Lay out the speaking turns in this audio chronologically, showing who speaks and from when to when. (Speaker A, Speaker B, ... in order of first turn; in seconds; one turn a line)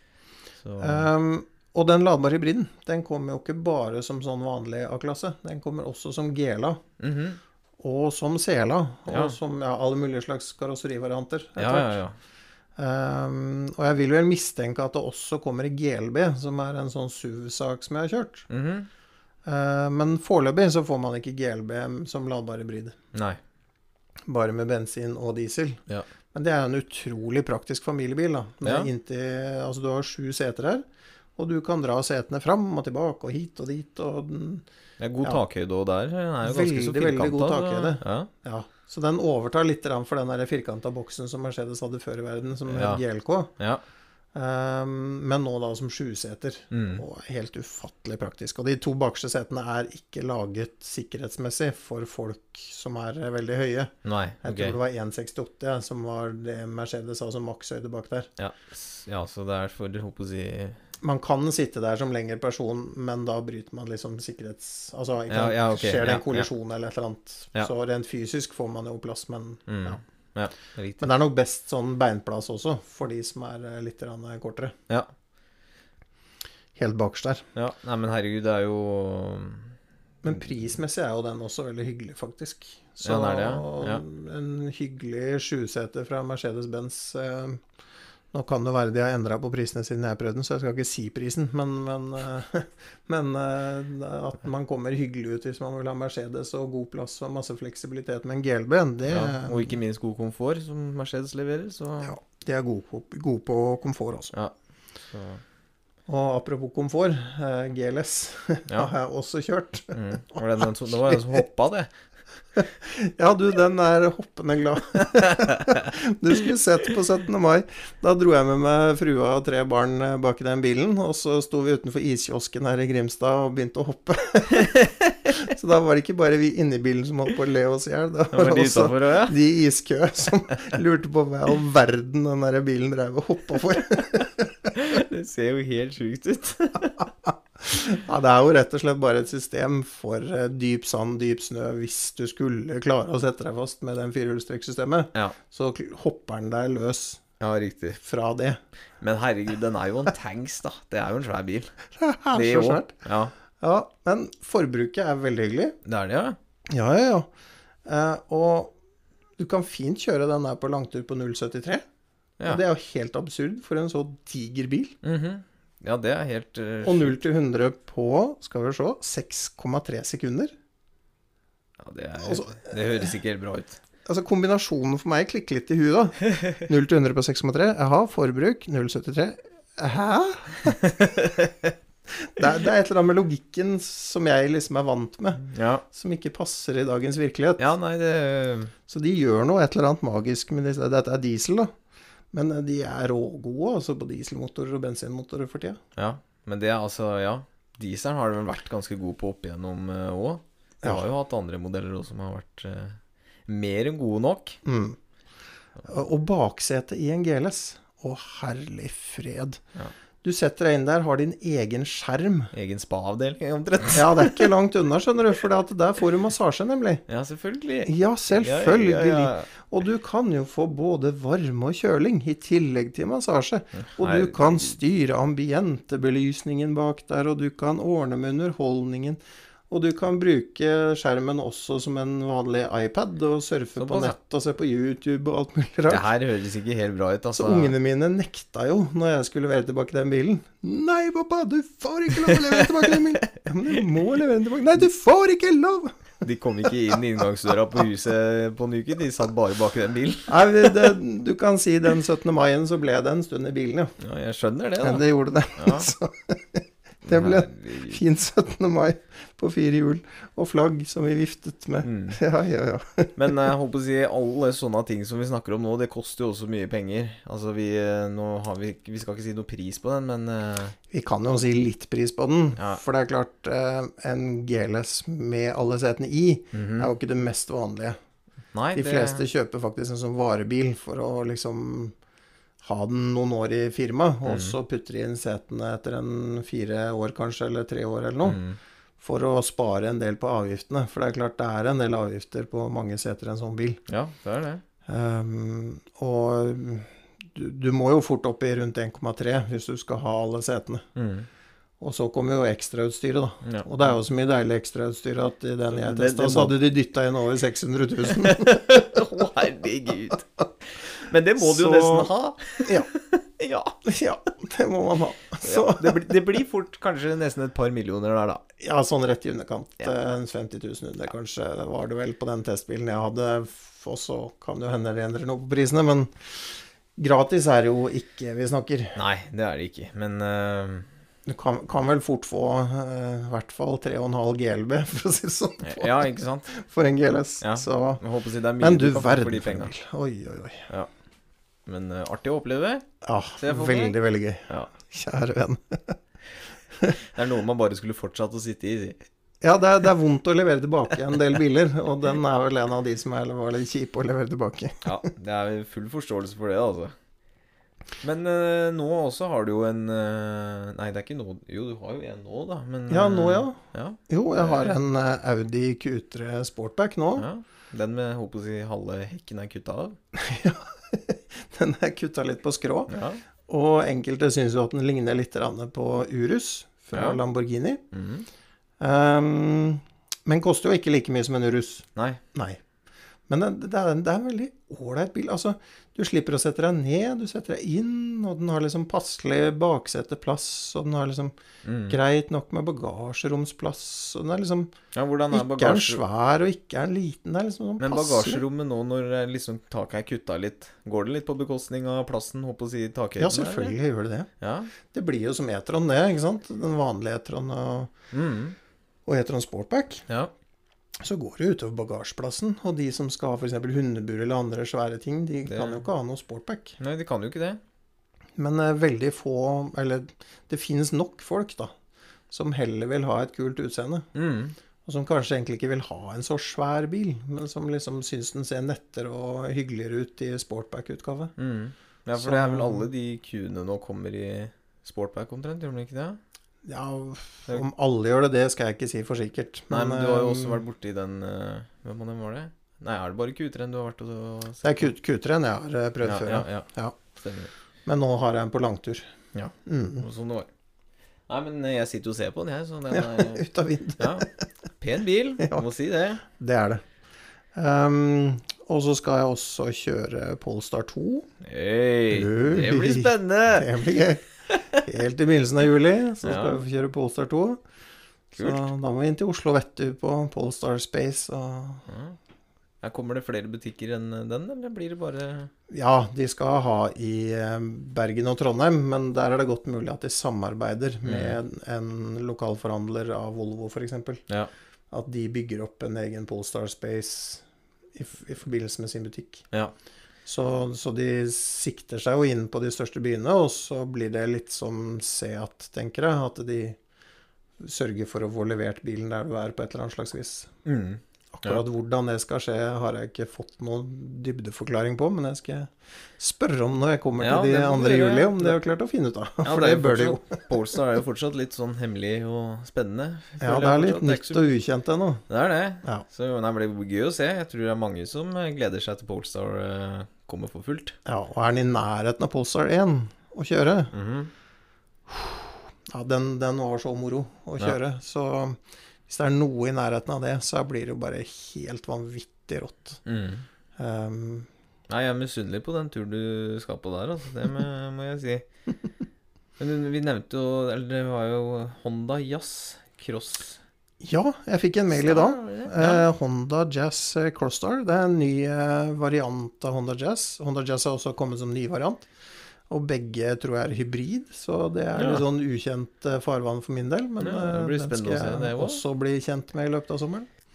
Speaker A: 0.6-1.1
Speaker B: 0.8-6.8
Speaker A: 7.0-7.4
Speaker B: 7.8-12.0
Speaker A: 9.1-9.4
Speaker A: 11.6-12.2
Speaker B: 12.8-18.5
Speaker A: 18.5-18.9
Speaker B: 19.5-23.0
Speaker A: 23.1-23.4
Speaker B: 24.3-25.8
Speaker B: 26.3-30.8
Speaker A: 28.6-28.9
Speaker B: 31.4-34.6
Speaker A: 35.0-38.3
Speaker B: 36.4-43.5
Speaker A: 42.7-43.0
Speaker B: 44.3-58.3
Speaker A: 46.7-47.0
Speaker A: 54.0-54.8
Speaker A: 58.4-60.8
Speaker B: 61.0-70.0
Speaker A: 65.3-66.5
Speaker A: 69.7-71.1
Speaker B: 71.0-74.8
Speaker B: 76.8-77.5
Speaker A: 77.5-79.7
Speaker B: 80.2-87.6
Speaker A: 83.0-84.0
Speaker B: 88.3-99.8
Speaker A: 99.1-102.1
Speaker B: 102.0-104.3
Speaker A: 105.1-105.4
Speaker B: 106.1-111.4
Speaker A: 109.9-111.9
Speaker B: 112.6-134.7
Speaker A: 115.5-115.8
Speaker A: 128.3-129.4
Speaker A: 134.7-137.1
Speaker B: 137.6-147.2
Speaker A: 147.4-148.0
Speaker B: 148.0-148.6
Speaker A: 149.0-151.7
Speaker B: 152.0-152.9
Speaker A: 152.3-153.3
Speaker B: 153.6-155.8
Speaker A: 155.8-156.4
Speaker B: 156.7-157.3
Speaker B: 157.9-158.8
Speaker B: 159.4-161.8
Speaker B: 162.4-165.0
Speaker A: 165.0-167.2
Speaker B: 166.8-170.5
Speaker A: 171.8-173.8
Speaker B: 172.2-173.1
Speaker B: 174.1-181.0
Speaker A: 180.8-181.7
Speaker B: 182.1-187.7
Speaker A: 185.5-185.8
Speaker A: 187.6-188.7
Speaker B: 188.9-191.7
Speaker B: 192.3-195.8
Speaker A: 195.9-204.6
Speaker B: 204.7-205.0
Speaker B: 205.8-209.6
Speaker B: 210.2-212.5
Speaker A: 212.5-214.5
Speaker B: 213.9-217.0
Speaker A: 217.1-219.5
Speaker B: 217.8-229.2
Speaker A: 223.8-224.8
Speaker B: 229.7-236.1
Speaker A: 233.8-234.2
Speaker A: 235.9-237.8
Speaker B: 237.3-246.1
Speaker A: 242.2-243.2
Speaker A: 246.2-250.9
Speaker B: 250.3-253.9
Speaker A: 254.0-255.1
Speaker B: 254.8-263.2
Speaker A: 255.6-255.9
Speaker A: 257.0-258.0
Speaker A: 261.8-262.2
Speaker A: 263.2-270.8
Speaker B: 270.9-278.0
Speaker A: 276.5-276.9
Speaker A: 278.5-279.3
Speaker B: 278.7-281.9
Speaker B: 282.6-288.4
Speaker A: 284.3-284.6
Speaker A: 288.2-288.6
Speaker B: 289.0-293.8
Speaker A: 293.9-294.6
Speaker B: 294.9-300.9
Speaker A: 301.0-301.3
Speaker B: 301.8-308.6
Speaker A: 303.4-303.8
Speaker A: 305.7-306.6
Speaker A: 308.1-313.8
Speaker B: 311.4-312.9
Speaker B: 313.9-316.2
Speaker A: 315.4-318.4
Speaker B: 318.6-329.0
Speaker A: 328.9-330.9
Speaker B: 331.3-338.0
Speaker A: 335.6-336.5
Speaker A: 337.4-339.7
Speaker B: 338.6-340.7
Speaker A: 341.7-342.9
Speaker B: 343.0-346.0
Speaker A: 343.4-343.9
Speaker A: 347.1-349.0
Speaker B: 349.4-355.1
Speaker A: 354.8-356.9
Speaker A: 358.0-364.8
Speaker B: 362.9-367.3
Speaker A: 367.2-370.0
Speaker B: 370.1-372.9
Speaker A: 372.9-373.2
Speaker B: 373.5-377.8
Speaker A: 376.9-377.2
Speaker A: 377.9-378.3
Speaker B: 378.8-382.6
Speaker A: 382.0-382.2
Speaker B: 383.3-391.3
Speaker A: 391.6-392.0
Speaker B: 391.9-394.7
Speaker A: 394.9-396.0
Speaker B: 395.3-398.4
Speaker A: 397.8-403.8
Speaker B: 403.2-404.3
Speaker A: 404.4-404.7
Speaker B: 404.9-407.9
Speaker A: 408.1-408.6
Speaker B: 409.1-410.1
Speaker B: 411.0-416.8
Speaker A: 415.5-415.9
Speaker A: 416.8-417.6
Speaker B: 418.4-421.7
Speaker B: 422.3-424.1
Speaker A: 424.1-424.6
Speaker B: 424.9-431.3
Speaker A: 431.4-436.2
Speaker B: 432.1-432.9
Speaker B: 436.6-440.6
Speaker A: 439.7-444.9
Speaker B: 444.6-447.0
Speaker A: 446.0-447.5
Speaker B: 447.9-449.1
Speaker A: 449.3-450.5
Speaker B: 449.7-450.1
Speaker A: 451.3-453.4
Speaker B: 452.9-454.4
Speaker A: 454.0-454.3
Speaker A: 454.8-456.2
Speaker B: 455.4-455.6
Speaker B: 456.2-456.8
Speaker B: 457.6-461.3
Speaker A: 461.4-463.7
Speaker B: 462.1-467.6
Speaker A: 466.2-466.6
Speaker B: 468.3-471.9
Speaker A: 468.4-468.7
Speaker A: 471.9-472.2
Speaker A: 472.8-475.5
Speaker B: 475.7-484.2
Speaker A: 481.0-481.4
Speaker B: 484.9-487.4
Speaker B: 487.9-489.4
Speaker B: 490.3-496.8
Speaker B: 497.6-500.5
Speaker A: 500.6-501.6
Speaker B: 501.3-510.5
Speaker A: 507.2-508.6
Speaker A: 509.4-514.5
Speaker B: 513.4-515.2
Speaker A: 515.3-521.0
Speaker B: 521.1-523.9
Speaker A: 523.9-524.3
Speaker B: 525.1-533.0
Speaker A: 533.1-533.4
Speaker B: 533.8-534.5
Speaker A: 534.9-538.5
Speaker A: 539.6-543.6
Speaker B: 544.0-552.1
Speaker A: 544.9-546.1
Speaker B: 552.7-560.3
Speaker A: 555.0-555.2
Speaker A: 557.2-558.8